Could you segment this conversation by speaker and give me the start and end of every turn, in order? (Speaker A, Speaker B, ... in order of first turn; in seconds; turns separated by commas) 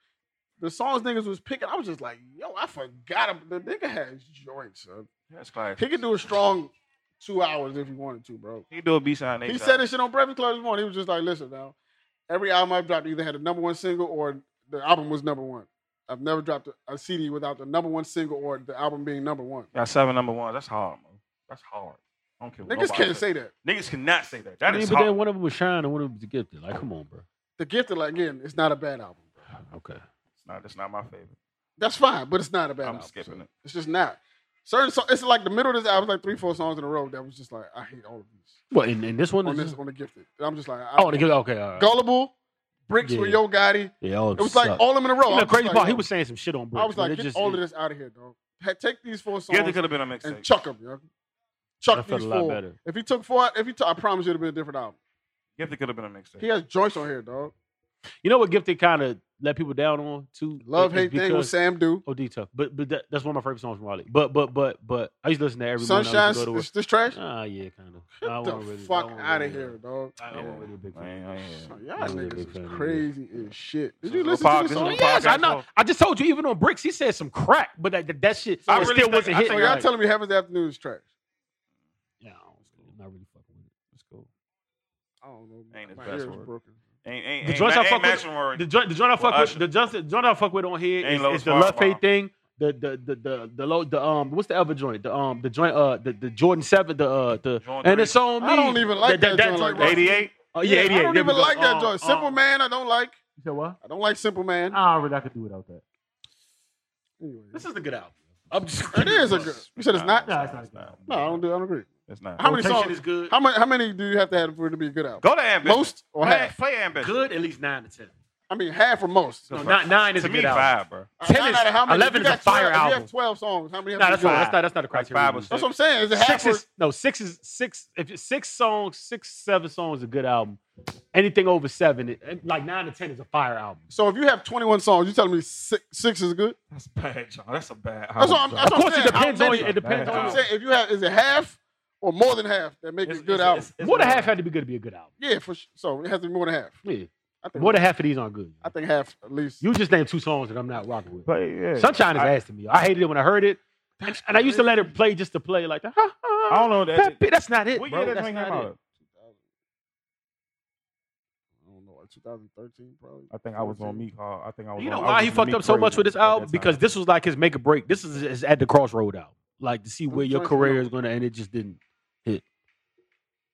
Speaker A: 0.6-5.1, Speaker B: 5.3-6.0, Speaker A: 5.8-8.6, Speaker B: 8.7-9.8, Speaker A: 9.4-11.7, Speaker A: 12.3-19.7, Speaker B: 19.7-25.1, Speaker A: 22.6-23.5, Speaker C: 24.6-27.2, Speaker A: 27.6-29.4, Speaker C: 29.7-30.0, Speaker B: 30.4-31.4, Speaker A: 31.8-38.6, Speaker B: 32.8-33.5, Speaker C: 38.7-39.8, Speaker A: 39.4-42.3, Speaker C: 41.0-41.9, Speaker A: 42.9-46.0, Speaker C: 43.0-43.4, Speaker C: 44.0-47.6, Speaker A: 46.7-51.0, Speaker B: 49.5-50.4, Speaker A: 51.8-55.0, Speaker C: 51.9-52.8, Speaker B: 55.6-56.4, Speaker A: 56.4-57.5, Speaker C: 58.2-61.5, Speaker A: 60.6-62.0, Speaker C: 62.0-73.1, Speaker A: 65.8-67.2, Speaker A: 68.2-70.1, Speaker B: 70.3-71.7, Speaker A: 71.7-75.3, Speaker B: 74.0-75.6, Speaker C: 74.7-79.9, Speaker B: 78.7-79.8, Speaker A: 78.7-81.0, Speaker C: 82.2-83.7, Speaker B: 83.9-84.3, Speaker A: 85.2-86.8, Speaker B: 85.7-86.5, Speaker B: 87.0-88.7, Speaker C: 87.4-102.4, Speaker B: 89.2-89.6, Speaker B: 91.0-92.0, Speaker B: 97.6-98.2, Speaker A: 98.4-103.2, Speaker B: 99.8-100.3, Speaker C: 103.4-103.8, Speaker A: 103.8-104.8, Speaker C: 104.7-105.8, Speaker A: 107.2-107.6, Speaker C: 107.5-109.5, Speaker A: 108.9-110.3, Speaker B: 109.0-111.3, Speaker C: 110.2-111.3, Speaker A: 111.1-116.5, Speaker B: 112.1-112.6, Speaker C: 112.4-113.3, Speaker B: 115.2-117.1, Speaker C: 117.0-118.1, Speaker A: 118.5-119.5, Speaker B: 119.5-121.1, Speaker C: 119.5-120.7, Speaker A: 121.2-124.6, Speaker C: 121.2-123.1, Speaker C: 124.0-125.5, Speaker B: 124.2-125.7, Speaker A: 125.5-126.6, Speaker C: 126.1-130.6, Speaker C: 131.1-133.8, Speaker A: 133.9-136.6, Speaker B: 136.7-140.4, Speaker A: 138.2-143.7, Speaker C: 138.6-140.4, Speaker B: 143.0-144.3, Speaker C: 143.8-145.1, Speaker A: 145.2-146.8, Speaker C: 146.8-148.6, Speaker A: 147.4-147.8, Speaker A: 148.6-149.6, Speaker C: 149.6-158.7, Speaker B: 151.2-152.3, Speaker A: 154.0-154.9, Speaker B: 156.5-157.2, Speaker B: 157.7-158.8, Speaker A: 159.1-159.3, Speaker A: 161.6-164.0, Speaker B: 163.3-166.8, Speaker C: 164.8-172.4, Speaker A: 170.1-170.9